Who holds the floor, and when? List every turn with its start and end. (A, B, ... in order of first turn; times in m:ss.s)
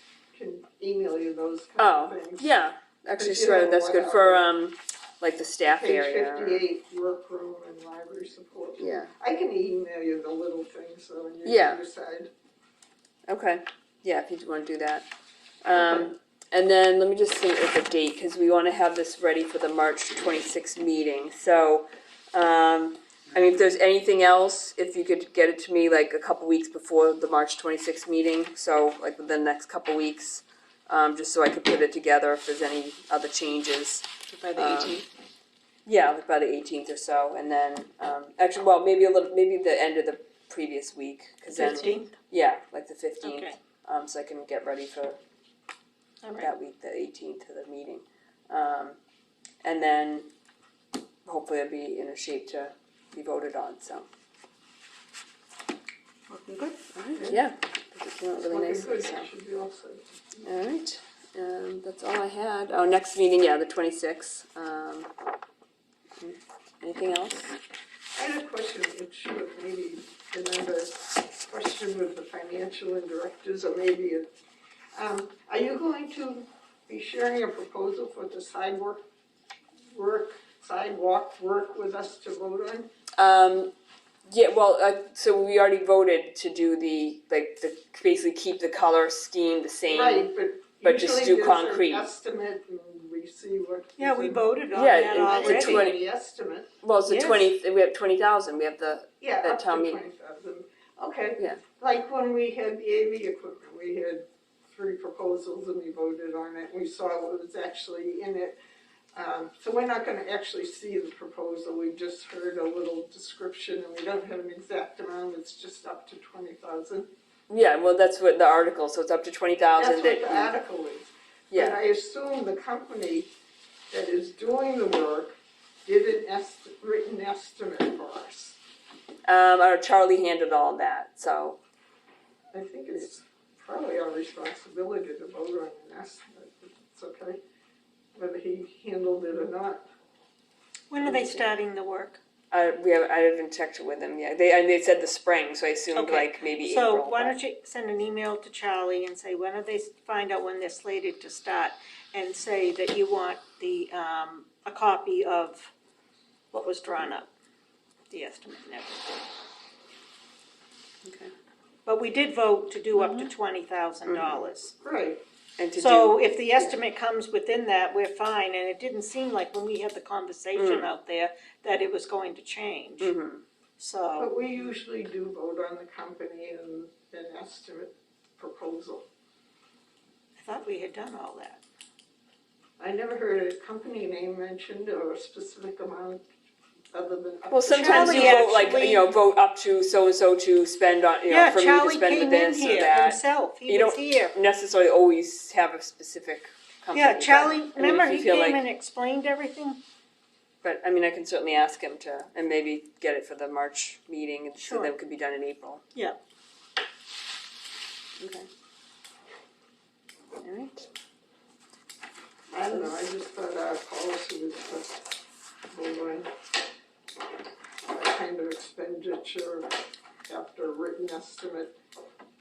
0:00.3-0:02.5 A
0:01.8-0:06.6 B
0:03.1-0:04.5 A
0:05.7-0:12.3 A
0:08.8-0:09.1 B
0:11.4-0:11.8 B
0:13.3-0:15.1 B
0:15.6-0:35.0 B
0:15.7-0:16.1 A
0:34.3-0:35.0 C
0:35.8-0:45.2 B
0:41.5-0:42.1 C
0:43.2-0:43.6 C
0:46.2-0:46.5 C
0:46.4-0:49.0 B
0:49.6-0:50.3 B
0:51.2-0:54.1 B
0:56.3-0:56.8 C
0:56.9-0:59.3 B
0:57.1-0:57.4 A
0:58.4-1:00.5 A
1:00.4-1:05.1 B
1:06.2-1:07.6 B
1:08.2-1:14.3 A
1:14.9-1:19.0 A
1:19.9-1:22.9 A
1:23.2-1:23.7 B
1:24.2-1:30.3 B
1:29.9-1:36.7 A
1:30.8-1:32.1 B
1:34.0-1:35.9 C
1:34.7-1:36.0 B
1:36.8-1:40.0 B
1:37.1-1:37.5 C
1:39.2-1:48.6 A
1:49.1-1:57.1 A
1:57.5-2:00.5 B
1:59.8-2:03.3 A
2:01.5-2:01.8 B
2:03.9-2:08.6 A
2:09.3-2:11.6 B
2:12.5-2:17.4 A
2:18.2-2:19.8 A
2:20.9-2:22.2 C
2:21.0-2:21.5 B
2:22.5-2:27.4 B
2:25.9-2:35.7 C
2:36.5-2:37.3 C
2:38.1-2:39.1 C
2:41.0-2:41.3 B
2:41.8-2:44.7 C
2:42.9-2:43.3 B
2:44.1-2:44.5 B
2:44.8-2:45.2 A
2:45.6-2:46.8 B
2:45.8-2:53.1 C
2:50.5-2:50.9 B
2:53.0-2:53.4 B
2:53.8-2:54.3 C
2:54.2-2:59.0 A
3:00.4-3:01.6 C
3:02.8-3:06.2 A
3:06.9-3:08.7 A
3:07.5-3:18.6 B
3:07.7-3:09.1 C
3:11.3-3:14.3 C
3:16.9-3:19.8 C
3:20.6-3:25.8 B
3:24.6-3:24.9 C
3:28.2-3:28.5 B
3:30.4-3:30.9 B
3:32.5-3:35.0 A
3:32.7-3:32.9 B
3:35.7-3:36.3 A
3:37.9-3:39.7 A
3:40.3-3:41.7 A